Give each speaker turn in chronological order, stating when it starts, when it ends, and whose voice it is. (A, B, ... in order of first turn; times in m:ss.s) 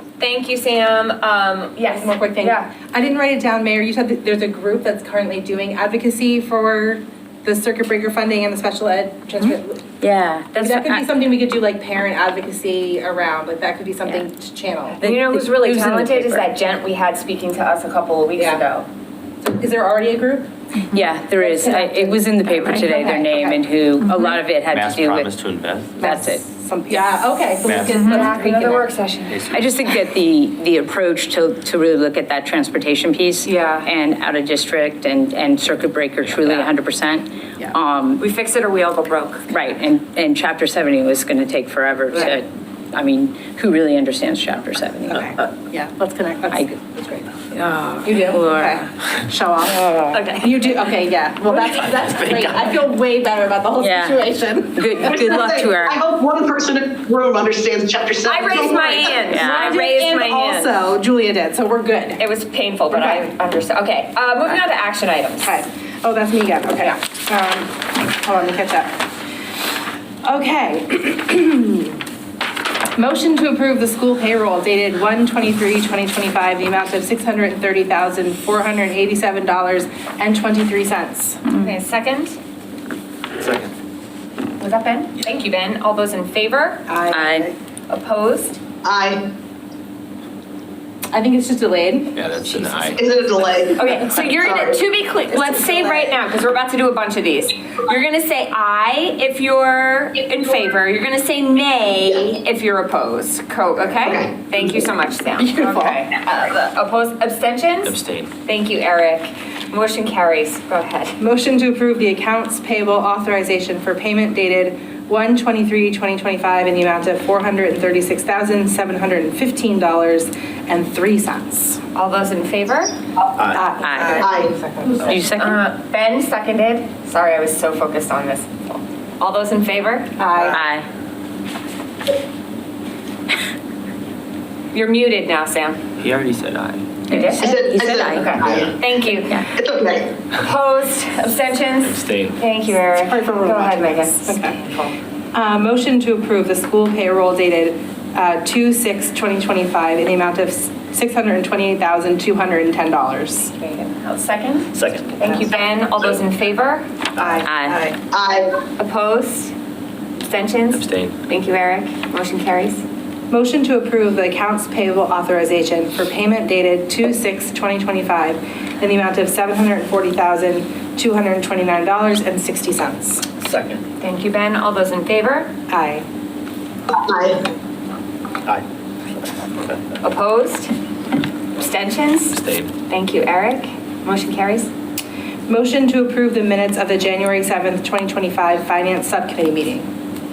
0:00.2-0:02.7 A
0:01.8-0:09.8 B
0:10.0-0:11.1 C
0:10.5-0:15.0 B
0:14.9-0:18.9 A
0:15.0-0:16.4 C
0:18.4-0:18.6 B
0:19.4-0:20.5 B
0:20.9-0:25.3 C
0:21.4-0:23.1 A
0:22.7-0:23.6 B
0:24.7-0:25.9 D
0:26.0-0:27.0 C
0:26.0-0:28.9 B
0:27.6-0:28.3 D
0:27.9-0:29.4 A
0:27.9-0:28.3 C
0:29.3-0:29.6 D
0:29.5-0:38.2 C
0:33.4-0:33.9 A
0:38.2-0:39.5 A
0:39.5-0:45.4 C
0:45.1-0:47.3 B
0:47.5-0:48.9 C
0:48.0-0:55.3 B
0:49.7-0:50.2 C
0:50.2-0:50.4 A
0:51.9-0:52.6 D
0:53.8-0:54.2 C
0:54.7-0:56.0 C
0:55.0-0:59.3 E
0:58.2-1:00.7 A
0:58.6-1:02.2 B
0:59.3-0:59.8 C
1:02.2-1:05.6 A
1:02.9-1:03.2 B
1:05.4-1:09.0 B
1:10.2-1:12.0 B
1:13.0-1:21.5 B
1:21.5-1:22.4 A
1:23.4-1:23.7 D
1:24.6-1:26.9 A
1:26.9-1:27.5 B
1:27.1-1:27.5 C
1:27.9-1:28.6 A
1:28.8-1:29.3 E
1:31.1-1:32.6 B
1:32.1-1:33.0 D
1:32.9-1:34.8 E
1:33.8-1:51.2 A
1:35.3-1:36.1 B
1:44.0-1:44.3 E
1:45.4-1:46.0 B
1:47.8-1:48.3 D
1:51.2-2:01.8 B
2:01.9-2:02.9 A
2:03.5-2:05.2 B
2:03.8-2:04.2 C
2:04.2-2:04.5 E
2:05.0-2:05.6 C
2:05.2-2:10.2 A
2:10.2-2:10.6 B
2:10.5-2:10.8 C
2:14.7-2:15.8 A
2:16.0-2:16.8 D
2:17.1-2:18.4 C
2:17.1-2:19.4 A
2:17.4-2:18.8 E
2:19.5-2:20.1 E
2:20.3-2:25.0 A
2:21.8-2:22.4 D
2:23.0-2:24.6 B
2:25.3-2:33.5 B
2:33.5-2:36.9 A
2:34.8-2:35.1 D
2:37.2-2:37.5 D
2:37.2-2:38.0 B
2:37.4-2:37.8 C
2:38.1-2:38.5 E
2:38.8-2:39.5 A
2:40.2-2:42.8 A
2:40.7-2:41.2 D
2:43.3-2:53.2 B
2:53.4-2:53.8 D
2:54.0-2:55.5 A
2:55.7-2:56.0 B
2:57.0-2:57.4 E
3:00.0-3:00.7 A
3:01.6-3:04.7 A
3:02.3-3:02.7 D
3:05.5-3:09.9 B